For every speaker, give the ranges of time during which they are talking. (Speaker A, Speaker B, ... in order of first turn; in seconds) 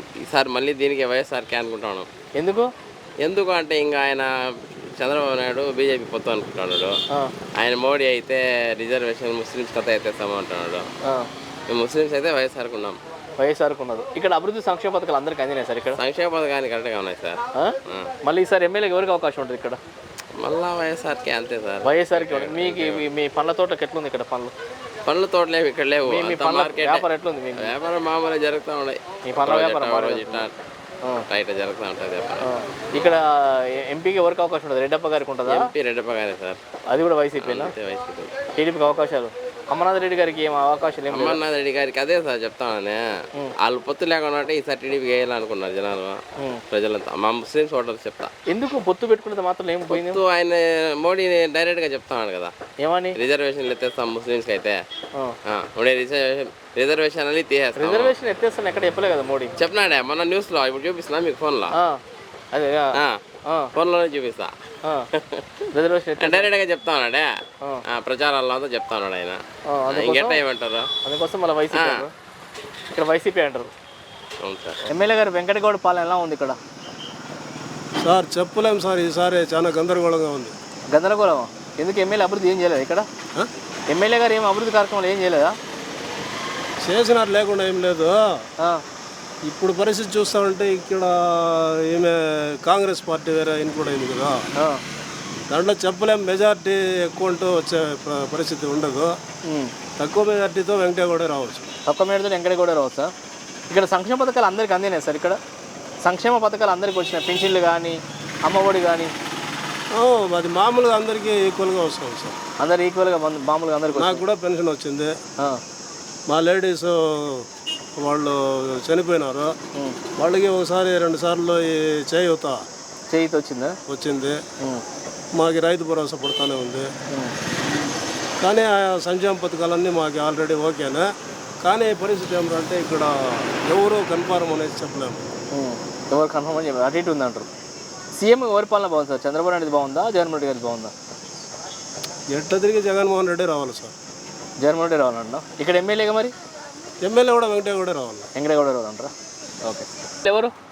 Speaker A: 0.1-2.1, 3.2-7.0, 7.6-10.9, 11.7-13.0, 16.0-18.1, 20.4-23.0, 25.1-27.0, 27.6-30.6, 31.3-32.5, 35.5-36.6, 37.4-38.3, 41.1-48.3, 49.9-52.5, 53.1-54.8, 55.5-58.1, 59.6-61.7, 63.0-63.2, 63.7-64.5, 65.1-65.4, 66.2-67.3, 67.9-70.9, 71.7-72.0, 74.4-74.9
Speaker B: 2.4-2.7, 13.4-16.0, 17.5-19.8, 21.8-24.5, 26.1-27.7, 29.2-30.5, 32.4-35.7, 36.9-37.7, 38.6-41.4, 48.5-50.2, 52.8-53.1, 57.8-59.5, 61.7-62.0, 62.5-63.7, 65.7-66.5, 69.7-70.4, 71.0-72.1, 72.9-73.7, 74.9-76.6, 80.9-83.1, 83.9-85.5, 94.5-94.8, 99.4-99.7, 101.8-103.1, 103.7-105.4, 106.0-109.1, 112.6-114.2, 123.1-123.8, 135.5-137.5, 138.2-140.9, 144.6-146.3, 148.3-149.1, 149.6-150.5
Speaker C: 78.0-80.5, 86.8-88.4, 89.4-94.5, 95.5-99.2, 100.0-101.7, 109.9-112.3, 113.9-115.1, 116.3-117.5, 118.0-119.5, 120.2-122.6, 123.9-124.4, 125.3-126.9, 128.4-131.1, 131.6-135.2, 142.3-143.9, 147.0-148.3